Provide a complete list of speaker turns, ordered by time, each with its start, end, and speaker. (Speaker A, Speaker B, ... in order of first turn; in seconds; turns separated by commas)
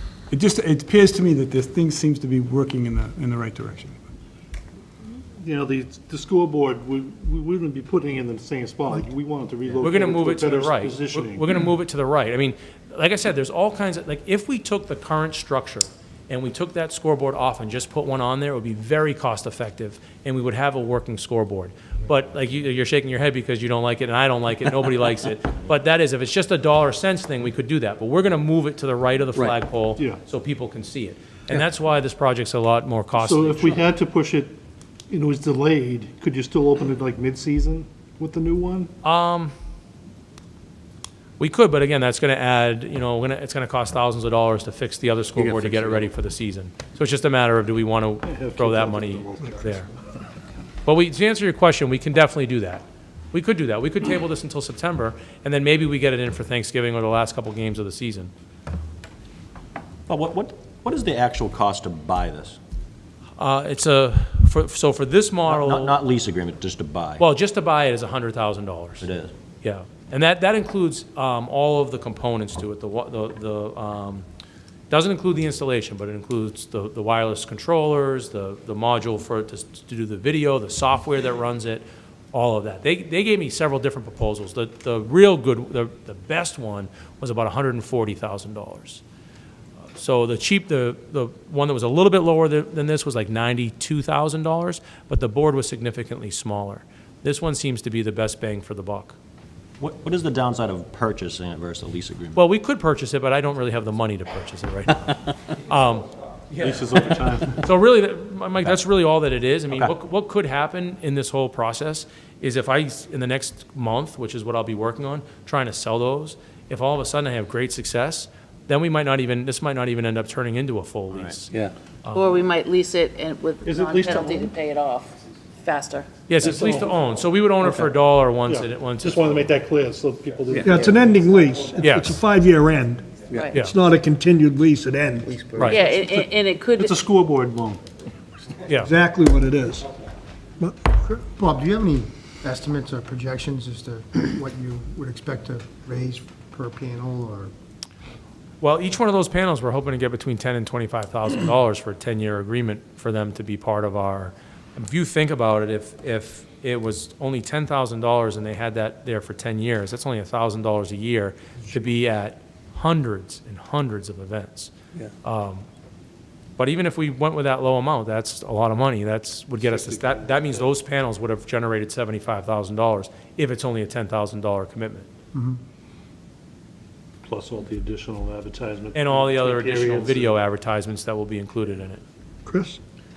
Speaker A: 0.3-4.0, Speaker B: 5.4-11.5, Speaker C: 9.8-33.8, Speaker B: 33.2-34.5, Speaker B: 35.1-38.9, Speaker C: 39.0-39.5, Speaker C: 41.4-49.9, Speaker B: 45.4-46.0, Speaker B: 48.2-49.8, Speaker C: 50.8-58.3, Speaker D: 60.1-62.6, Speaker C: 63.4-66.0, Speaker D: 65.5-67.2, Speaker C: 67.2-69.1, Speaker D: 69.0-69.3, Speaker C: 69.6-74.2, Speaker C: 74.9-89.0, Speaker C: 89.9-99.2, Speaker D: 99.8-102.4, Speaker C: 102.3-122.4, Speaker B: 106.6-107.6, Speaker E: 122.1-126.5, Speaker B: 123.6-124.3, Speaker C: 126.3-129.3, Speaker B: 126.5-126.9, Speaker B: 128.5-130.9, Speaker E: 129.0-131.0, Speaker F: 130.6-135.3, Speaker C: 131.8-132.2, Speaker G: 135.3-135.8, Speaker E: 135.7-137.8, Speaker B: 136.8-137.8, Speaker C: 138.7-138.9, Speaker F: 138.8-139.9, Speaker F: 140.6-141.2, Speaker G: 141.3-147.5, Speaker C: 148.6-164.7, Speaker C: 165.2-165.7, Speaker C: 166.6-175.1, Speaker B: 177.2-180.3, Speaker C: 178.9-182.0, Speaker F: 182.5-182.8